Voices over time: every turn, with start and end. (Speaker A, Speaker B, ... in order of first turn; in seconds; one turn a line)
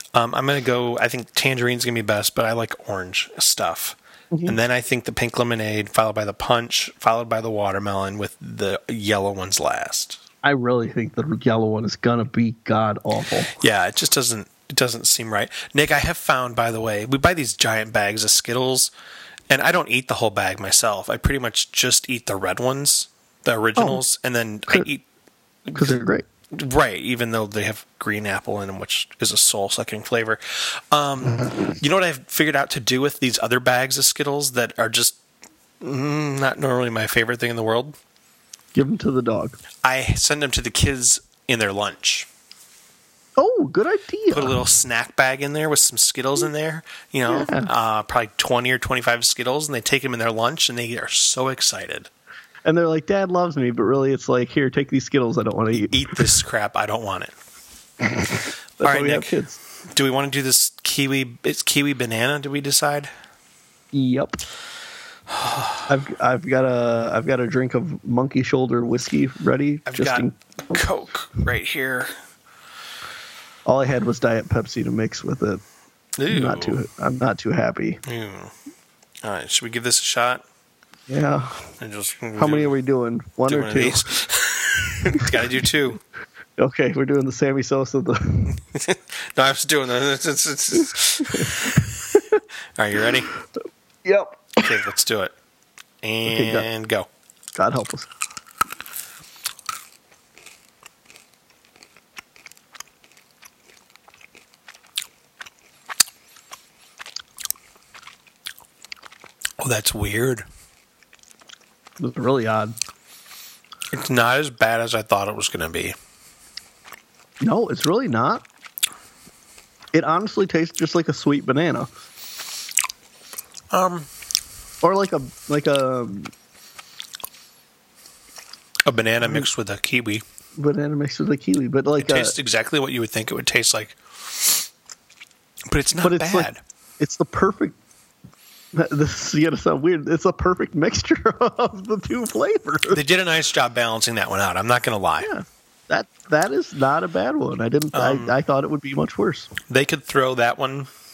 Speaker A: 0.1-10.2
Speaker B: 4.3-4.6
Speaker B: 10.4-13.5
Speaker A: 13.5-18.9
Speaker A: 19.5-25.0
Speaker B: 23.8-24.0
Speaker A: 25.7-26.0
Speaker B: 25.7-26.2
Speaker A: 26.5-35.2
Speaker A: 35.8-38.0
Speaker B: 38.8-39.6
Speaker A: 39.8-42.3
Speaker B: 43.4-44.6
Speaker A: 44.3-52.1
Speaker B: 47.3-47.7
Speaker B: 52.6-56.4
Speaker A: 55.7-57.3
Speaker B: 58.0-59.6
Speaker A: 58.8-59.4
Speaker A: 59.9-63.1
Speaker B: 63.9-64.4
Speaker A: 65.3-65.8
Speaker B: 65.9-70.8
Speaker A: 69.9-72.1
Speaker B: 73.7-75.6
Speaker A: 76.2-76.8
Speaker B: 76.3-78.0
Speaker A: 78.0-78.5
Speaker A: 79.2-80.4
Speaker B: 81.1-81.7
Speaker A: 81.8-82.8
Speaker B: 82.4-84.0
Speaker A: 83.5-86.0
Speaker B: 86.6-88.6
Speaker A: 88.7-91.9
Speaker B: 91.3-92.4
Speaker A: 92.8-93.3
Speaker B: 94.0-94.8
Speaker A: 94.6-95.3
Speaker A: 96.0-97.1
Speaker B: 96.3-96.7
Speaker B: 97.5-98.1
Speaker A: 109.6-110.5
Speaker B: 112.0-112.8
Speaker A: 113.9-116.0
Speaker B: 117.4-118.5
Speaker B: 119.9-121.9
Speaker A: 123.7-124.1
Speaker B: 124.8-126.3
Speaker A: 128.9-130.2
Speaker B: 129.2-129.5
Speaker B: 130.6-132.4
Speaker A: 132.0-134.7
Speaker A: 135.7-136.6
Speaker B: 136.0-137.8
Speaker B: 138.7-143.0
Speaker A: 142.9-145.3
Speaker B: 145.2-149.5
Speaker A: 147.9-148.4
Speaker A: 149.7-150.9